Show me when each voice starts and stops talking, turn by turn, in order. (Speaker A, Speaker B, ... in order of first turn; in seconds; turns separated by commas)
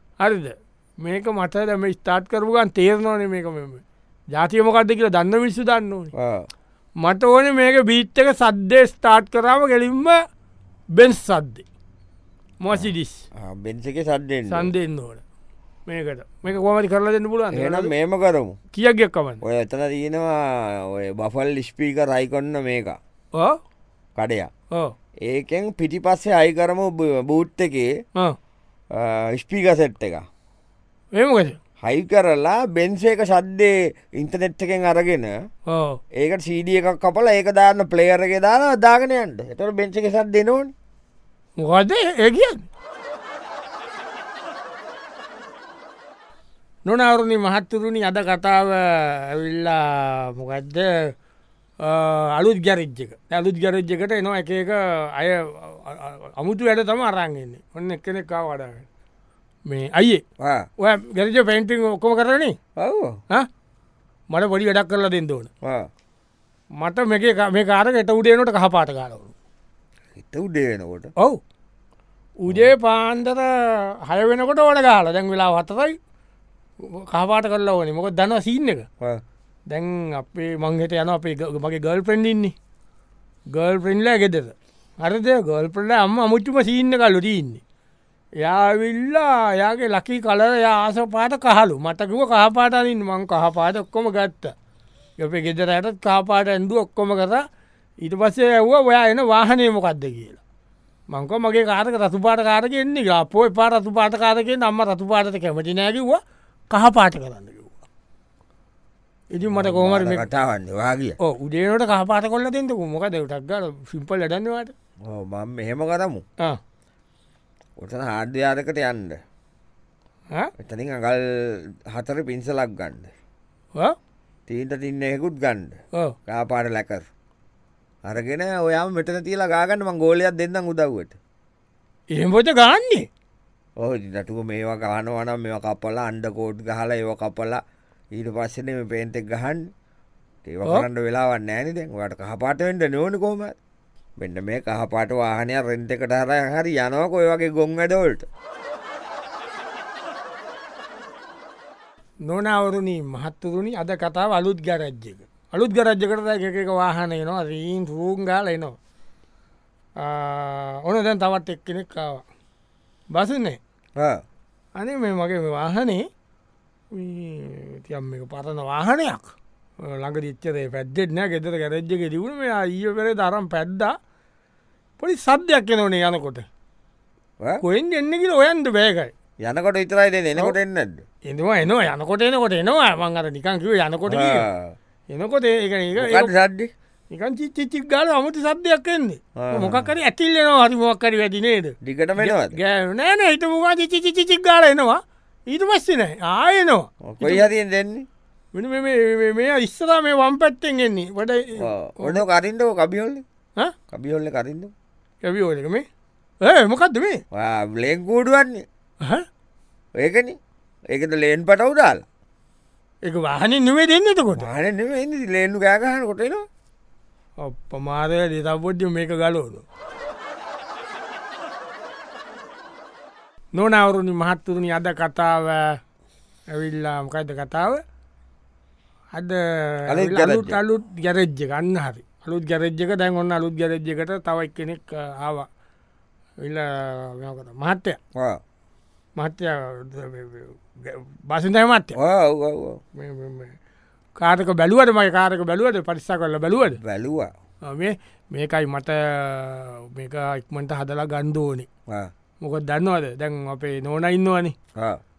Speaker A: 0.2-6.1, Speaker B: 6.2-6.5, Speaker A: 7.0-10.2, Speaker A: 10.9-11.7, Speaker A: 12.6-13.2, Speaker B: 12.7-14.7, Speaker A: 14.5-15.2, Speaker A: 15.9-17.9, Speaker B: 17.5-18.6, Speaker A: 18.7-19.4, Speaker B: 19.4-23.0, Speaker B: 24.2-24.5, Speaker B: 25.2-27.9, Speaker B: 28.9-30.2, Speaker A: 31.1-31.6, Speaker B: 31.8-35.4, Speaker A: 35.7-36.0, Speaker B: 36.2-40.7, Speaker A: 41.6-42.7, Speaker A: 46.9-51.1, Speaker A: 51.8-58.9, Speaker A: 59.7-60.2, Speaker B: 60.4-60.7, Speaker A: 60.8-62.6, Speaker B: 62.8-63.2, Speaker A: 64.3-65.5, Speaker B: 65.6-65.9, Speaker A: 66.8-69.3, Speaker B: 70.2-71.1, Speaker A: 72.4-76.0, Speaker A: 76.8-78.9, Speaker A: 79.7-82.5, Speaker A: 83.5-87.6, Speaker A: 88.4-94.5, Speaker A: 95.2-97.4, Speaker A: 98.0-100.4, Speaker A: 101.1-107.8, Speaker A: 109.3-110.3, Speaker B: 109.4-111.2, Speaker A: 111.2-114.7, Speaker B: 115.1-116.2, Speaker B: 117.8-119.2, Speaker B: 120.6-123.1, Speaker B: 124.5-127.1, Speaker B: 128.0-131.2, Speaker A: 132.1-133.1, Speaker B: 133.8-137.6, Speaker B: 138.2-139.7, Speaker B: 140.4-143.6, Speaker B: 144.2-148.3, Speaker A: 152.3-158.8, Speaker A: 160.0-162.2, Speaker A: 163.1-163.6, Speaker A: 164.8-166.0, Speaker A: 166.9-173.9, Speaker A: 175.0-176.5, Speaker A: 177.6-179.1, Speaker B: 179.4-181.0, Speaker A: 181.3-184.4, Speaker B: 184.1-184.8, Speaker A: 185.1-186.3, Speaker B: 186.0-186.7, Speaker A: 187.1-197.5, Speaker B: 189.4-189.9, Speaker B: 191.8-192.6, Speaker B: 197.1-198.1, Speaker A: 198.5-202.2, Speaker B: 201.6-203.2, Speaker B: 203.9-204.7, Speaker A: 205.2-205.8, Speaker A: 206.4-207.2, Speaker B: 207.3-208.6, Speaker B: 210.0-210.4, Speaker B: 210.9-212.0, Speaker A: 213.1-214.5, Speaker B: 214.3-216.4, Speaker A: 217.4-219.6, Speaker A: 223.5-225.8, Speaker A: 226.5-227.8, Speaker A: 229.1-235.5, Speaker B: 229.9-230.6, Speaker A: 236.4-238.0, Speaker A: 239.2-242.0, Speaker B: 241.9-242.8, Speaker A: 243.0-243.6, Speaker A: 244.2-246.8, Speaker B: 246.8-247.3, Speaker A: 247.7-251.7, Speaker A: 252.4-254.6